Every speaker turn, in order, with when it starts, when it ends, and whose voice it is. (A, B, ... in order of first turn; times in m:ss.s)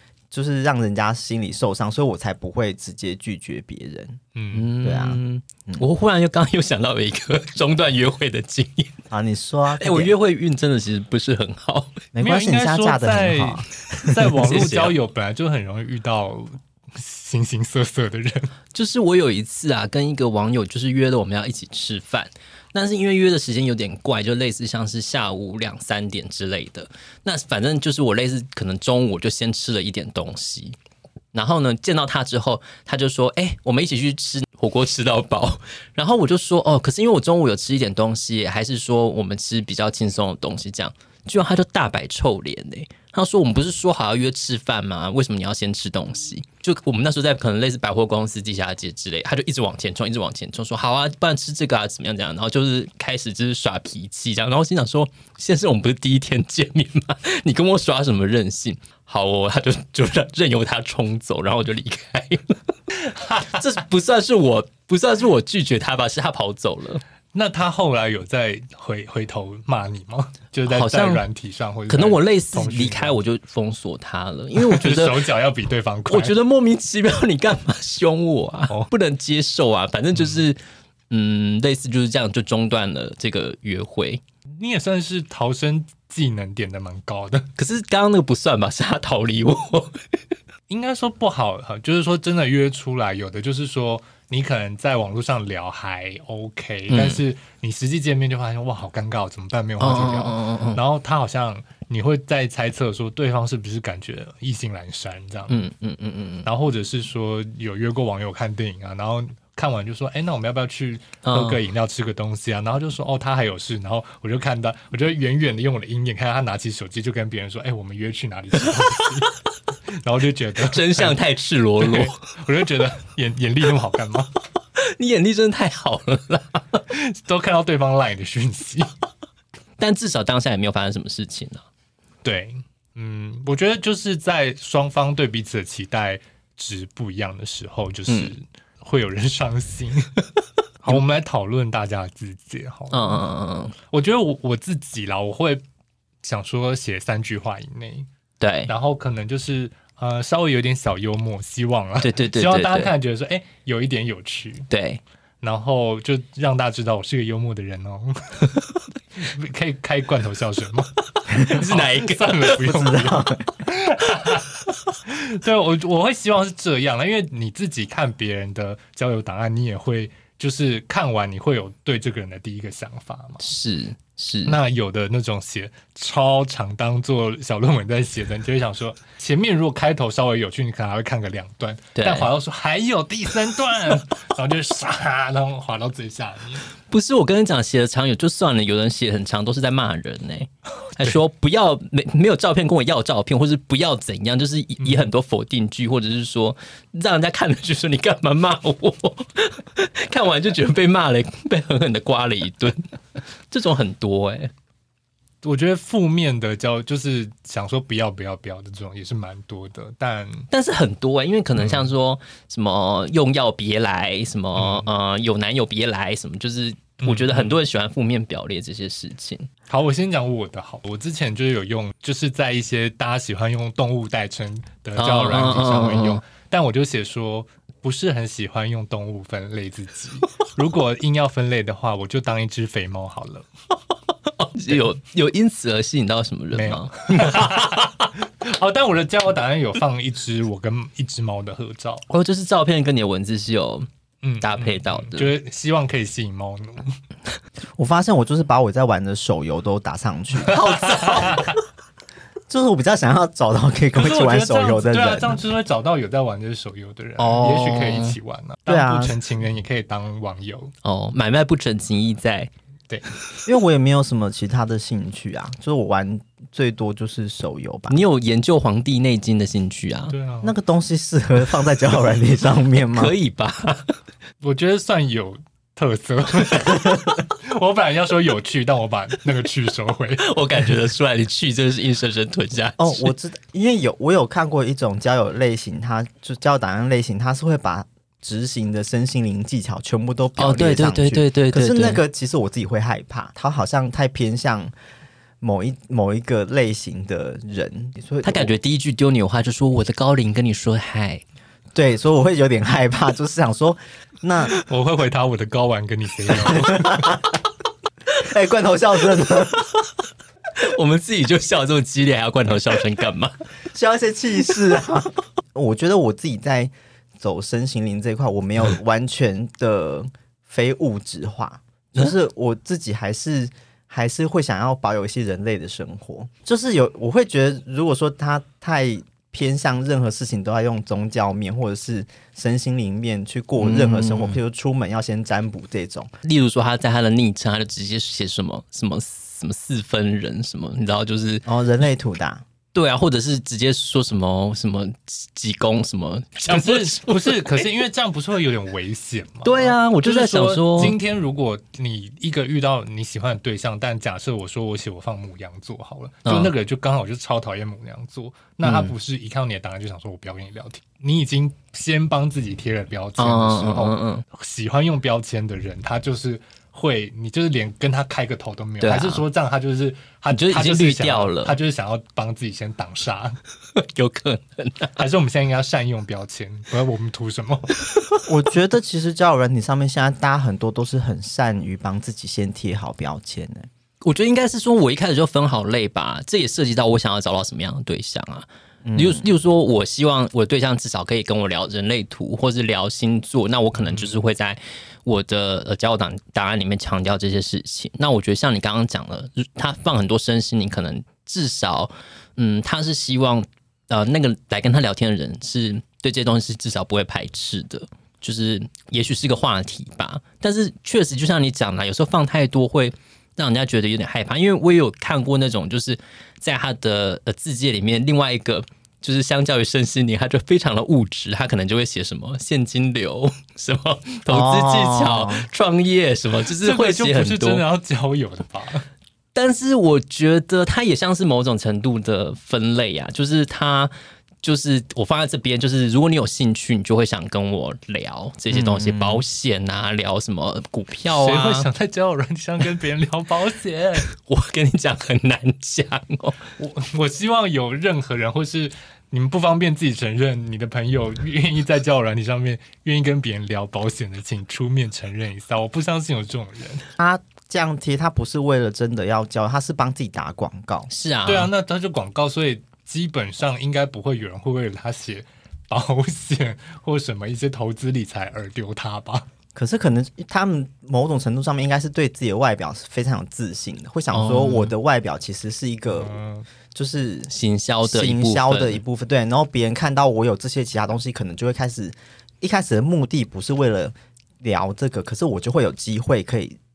0:00.3-0:04.2 A
0:04.3-0:04.7 B
0:04.5-0:09.0 C
0:04.8-0:05.8 A
0:09.1-0:10.1 A
0:09.7-0:12.0 C
0:12.1-0:14.3 A
0:12.2-0:18.5 B
0:14.3-0:14.9 C
0:18.7-0:30.8 C
0:31.3-1:02.6 C
1:03.1-1:03.6 B
1:03.4-1:07.0 C
1:07.3-1:13.2 B
1:10.7-1:11.2 C
1:11.9-1:15.3 C
1:14.6-1:16.3 B
1:16.1-1:20.6 C
1:20.1-1:20.4 B
1:21.1-1:24.2 C
1:24.6-1:27.5 B
1:27.6-1:30.0 C
1:30.7-1:45.7 B
1:36.9-1:37.2 C
1:39.8-1:40.8 C
1:45.5-1:46.5 C
1:46.4-1:59.3 B
1:51.2-1:51.6 C
2:00.0-2:01.2 B
2:00.7-2:02.1 C
2:01.8-2:04.3 B
2:04.8-2:06.8 C
2:06.9-2:08.9 B
2:09.8-2:11.6 C
2:12.2-2:20.1 B
2:18.1-2:18.3 C
2:20.8-2:25.6 B
2:22.9-2:23.7 C
2:26.2-2:28.1 B
2:28.4-2:28.7 C
2:28.7-2:34.7 B
2:32.0-2:32.9 C
2:34.7-2:35.0 C
2:35.4-2:53.4 B
2:41.4-2:42.7 C
2:42.6-2:43.4 A
2:53.4-2:54.6 C
2:54.4-3:06.6 B
3:01.9-3:02.3 C
3:06.9-3:22.9 C
3:14.8-3:15.1 B
3:23.5-3:24.5 C
3:25.4-3:30.5 B
3:30.5-3:39.5 C
3:31.6-3:31.9 B
3:34.5-3:34.9 B
3:37.0-3:37.6 B
3:39.7-3:53.5 B
3:45.0-3:46.2 C
3:54.4-3:58.1 C
3:56.5-4:02.0 B
4:02.1-4:03.9 C
4:04.2-4:07.0 B
4:04.4-4:05.3 C
4:07.8-4:11.4 A
4:10.4-4:11.5 B
4:11.0-4:11.3 C
4:12.5-4:15.4 A
4:13.9-4:20.7 B
4:17.2-4:18.2 C
4:18.7-4:19.2 A
4:20.8-4:22.5 C
4:23.4-4:28.0 A
4:27.9-4:30.1 C
4:30.1-4:30.5 B
4:30.4-4:33.1 A
4:32.9-4:33.9 C
4:34.4-4:40.8 B
4:40.2-4:43.1 C
4:42.8-4:54.7 A
4:50.4-4:52.0 C
4:55.4-4:58.5 A
4:58.2-5:01.2 C
5:01.7-5:04.5 A
5:04.6-5:07.2 B
5:06.4-5:07.2 A
5:08.1-5:09.7 A
5:10.6-5:13.3 C
5:13.7-5:36.1 A
5:33.6-5:34.4 C
5:36.2-5:41.4 C
5:41.4-5:42.4 A
5:42.7-5:47.6 C
5:46.5-6:13.4 B
5:49.4-5:50.9 C
5:56.2-5:56.5 C
5:58.6-5:58.9 C
6:03.2-6:04.2 C
6:08.8-6:09.2 C
6:10.3-6:11.6 C
6:13.8-6:15.0 C
6:15.0-6:17.8 B
6:18.2-6:23.7 A
6:24.0-7:07.6 C
6:28.8-6:29.3 A
6:33.7-6:34.1 B
7:04.3-7:05.5 A
7:06.4-7:08.9 B
7:09.3-7:21.7 C
7:18.5-7:19.2 A
7:21.1-7:24.1 B
7:24.1-7:26.4 C
7:26.6-7:36.8 B
7:37.0-7:40.9 A
7:40.9-7:41.5 C
7:41.2-7:49.2 B
7:49.5-7:56.2 A
7:54.1-7:54.7 C
7:55.9-7:56.5 B
7:56.7-7:57.3 A
7:57.3-7:58.8 C
7:57.8-8:06.6 A